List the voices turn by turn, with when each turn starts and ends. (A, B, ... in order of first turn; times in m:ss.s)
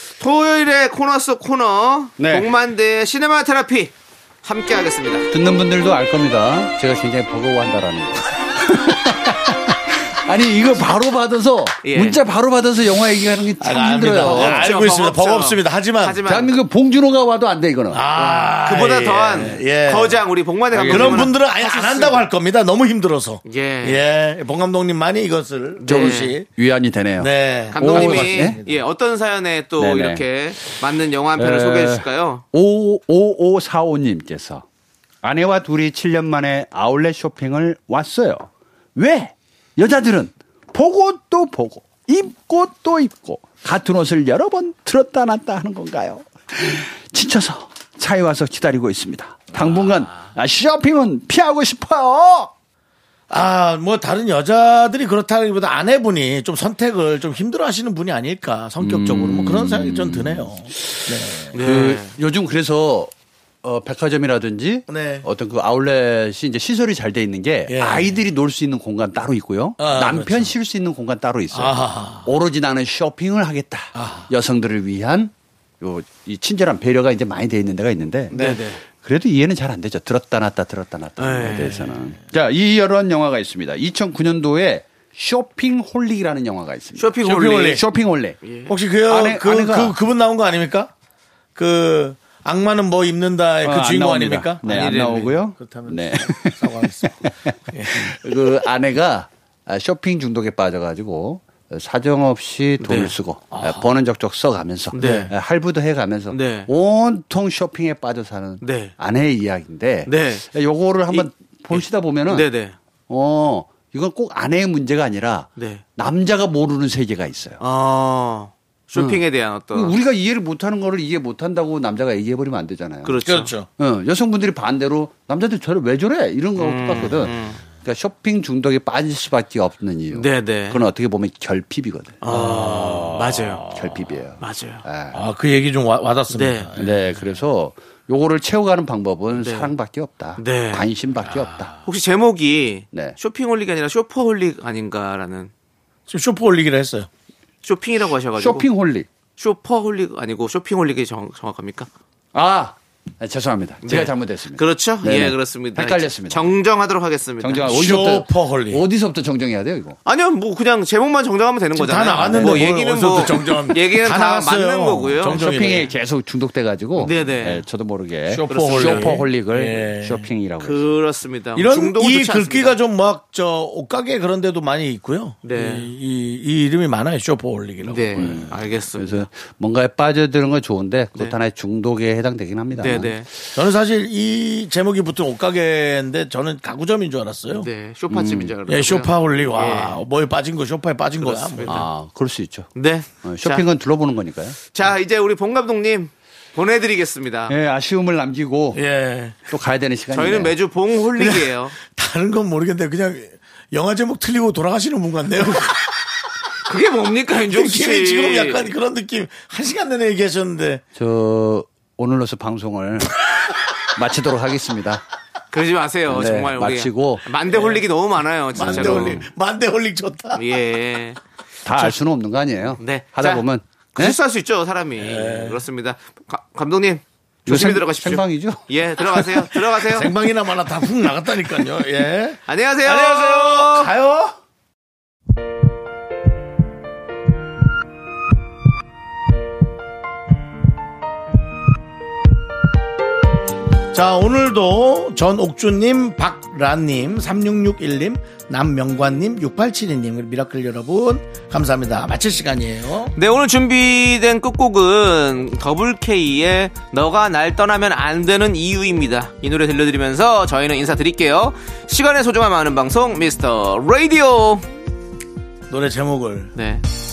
0:00.2-0:05.3 A
0:02.2-0:02.5 B
0:05.3-0:14.7 B
0:11.8-0:12.2 A
0:13.6-0:16.2 C
0:14.2-0:16.5 A
0:16.3-0:18.0 B
0:17.9-0:20.2 C
0:18.1-0:22.3 A
0:20.7-0:21.3 B
0:20.9-0:26.5 C
0:23.4-0:24.0 A
0:25.8-0:26.4 A
0:25.9-0:28.6 B
0:27.2-0:28.8 C
0:27.7-0:32.4 A
0:29.8-0:30.2 B
0:31.4-0:34.6 B
0:35.2-0:52.5 B
0:53.3-1:01.6 C
0:58.8-1:03.1 B
1:01.5-1:02.2 A
1:03.6-1:28.4 B
1:04.9-1:05.3 C
1:07.7-1:08.2 C
1:09.8-1:10.5 C
1:11.5-1:12.3 C
1:14.0-1:14.3 C
1:18.3-1:18.8 A
1:21.2-1:21.8 A
1:27.0-1:27.8 A
1:27.2-1:27.8 C
1:28.4-1:28.7 A
1:28.7-1:30.9 C
1:29.1-1:30.0 B
1:31.6-1:34.7 C
1:33.6-1:52.5 B
1:34.6-1:35.4 A
1:35.6-1:37.2 C
1:37.7-1:38.3 C
1:42.8-1:43.8 A
1:44.9-1:45.3 A
1:45.0-1:45.3 C
1:46.3-1:46.7 A
1:48.6-1:48.9 A
1:50.1-1:50.5 A
1:51.1-1:52.8 A
1:53.1-1:57.6 B
1:55.6-1:55.8 A
1:57.6-2:00.0 A
1:59.0-2:03.2 B
2:03.0-2:03.5 A
2:03.2-2:03.7 C
2:03.8-2:12.2 B
2:06.6-2:07.6 A
2:10.1-2:10.8 A
2:12.2-2:13.7 A
2:12.3-2:13.9 C
2:13.7-2:15.2 B
2:14.4-2:14.8 A
2:15.1-2:17.0 C
2:16.3-2:16.8 A
2:16.8-2:21.7 B
2:19.3-2:19.7 A
2:20.4-2:25.5 A
2:22.9-2:23.2 B
2:26.1-2:27.1 C
2:27.6-2:28.7 A
2:28.4-2:29.1 B
2:29.4-2:31.9 A
2:32.3-2:36.6 B
2:33.8-2:37.7 A
2:37.4-2:40.0 B
2:37.6-2:38.8 C
2:40.0-2:45.9 A
2:41.8-2:45.9 C
2:42.2-2:42.8 B
2:45.3-2:50.9 B
2:47.0-2:47.6 A
2:48.3-2:50.3 C
2:48.5-2:49.2 A
2:50.6-2:52.8 A
2:51.6-2:58.5 C
2:55.4-2:55.9 A
2:57.8-2:59.3 A
2:58.2-3:03.2 B
3:02.7-3:03.3 A
3:03.5-3:07.7 C
3:07.5-3:10.0 A
3:08.1-3:08.5 B
3:08.7-3:11.9 C
3:11.2-3:11.9 A
3:11.7-3:12.7 B
3:12.8-3:13.6 A
3:13.2-3:14.6 B
3:14.7-3:17.5 A
3:17.5-3:18.8 B
3:18.8-3:19.5 C
3:19.5-3:20.6 B
3:20.1-3:21.7 A
3:21.2-3:26.1 C
3:26.7-3:28.7 A
3:27.5-3:30.8 C
3:31.0-3:33.2 B
3:34.0-3:35.0 B
3:35.5-3:39.3 A
3:36.1-3:37.3 B
3:37.5-3:37.8 C
3:38.6-3:40.4 C
3:38.6-3:39.2 B
3:40.4-3:41.2 A
3:41.6-3:44.2 B
3:42.8-3:50.1 A
3:45.0-3:45.6 C
3:47.5-3:49.5 B
3:49.9-3:54.2 C
3:52.5-3:53.9 A
3:53.8-3:54.2 B
4:03.9-4:13.1 C
4:13.2-4:24.7 A
4:25.7-4:26.6 C
4:26.6-4:26.8 A